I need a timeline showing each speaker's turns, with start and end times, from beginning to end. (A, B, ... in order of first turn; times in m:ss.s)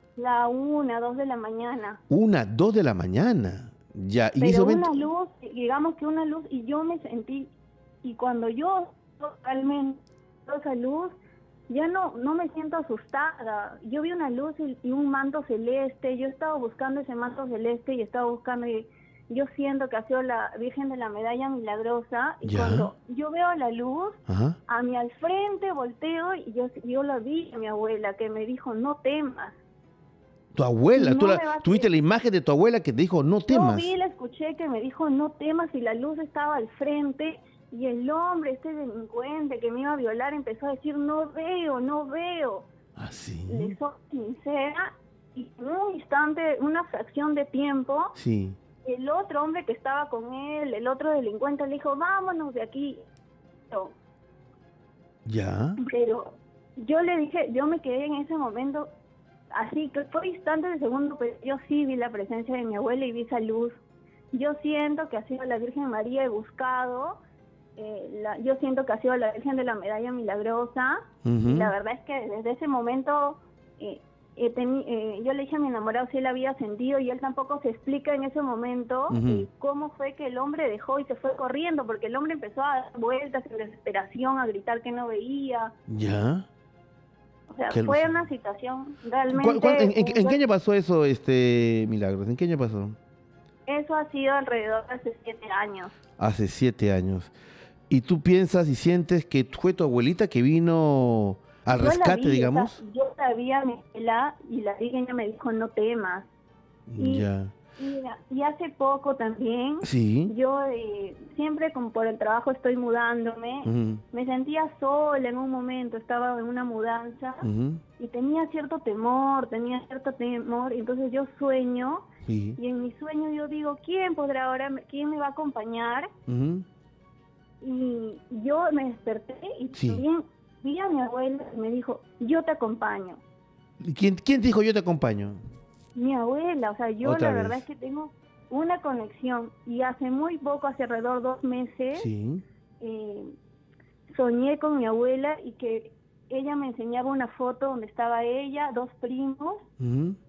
0:00.2-0:02.0 A
0:02.1-0:05.0 B
0:04.4-0:07.5 A
0:08.0-0:11.2 A
0:11.7-0:29.6 A
0:22.4-0:22.9 B
0:24.3-0:24.6 B
0:30.5-0:33.9 B
0:30.9-0:31.8 A
0:33.5-0:42.7 A
0:43.0-0:43.8 B
0:43.5-0:48.1 A
0:48.1-0:48.6 B
0:48.8-0:53.0 A
0:55.2-0:55.8 B
0:55.8-0:58.9 A
0:59.5-1:03.8 A
1:04.3-1:07.2 A
1:07.8-1:25.7 A
1:11.2-1:11.7 B
1:19.1-1:19.5 B
1:25.9-1:26.5 B
1:27.5-1:30.4 A
1:27.7-1:28.2 B
1:29.3-1:33.0 B
1:33.7-1:35.9 A
1:36.2-1:37.3 B
1:37.9-1:42.8 B
1:41.7-1:46.3 A
1:46.9-1:47.5 B
1:47.0-1:47.2 A
1:47.8-1:57.4 A
1:49.8-1:50.3 B
1:53.6-1:54.0 B
1:57.4-1:57.8 B
1:58.0-2:02.0 A
2:02.2-2:02.6 B
2:02.6-2:06.1 A
2:06.3-2:06.6 B
2:07.6-2:13.2 A
2:09.7-2:10.0 B
2:13.8-2:15.4 B
2:15.9-2:22.1 A
2:17.0-2:17.6 B
2:21.9-2:22.4 B
2:22.8-2:23.3 A
2:24.1-2:29.6 A
2:29.8-2:30.2 B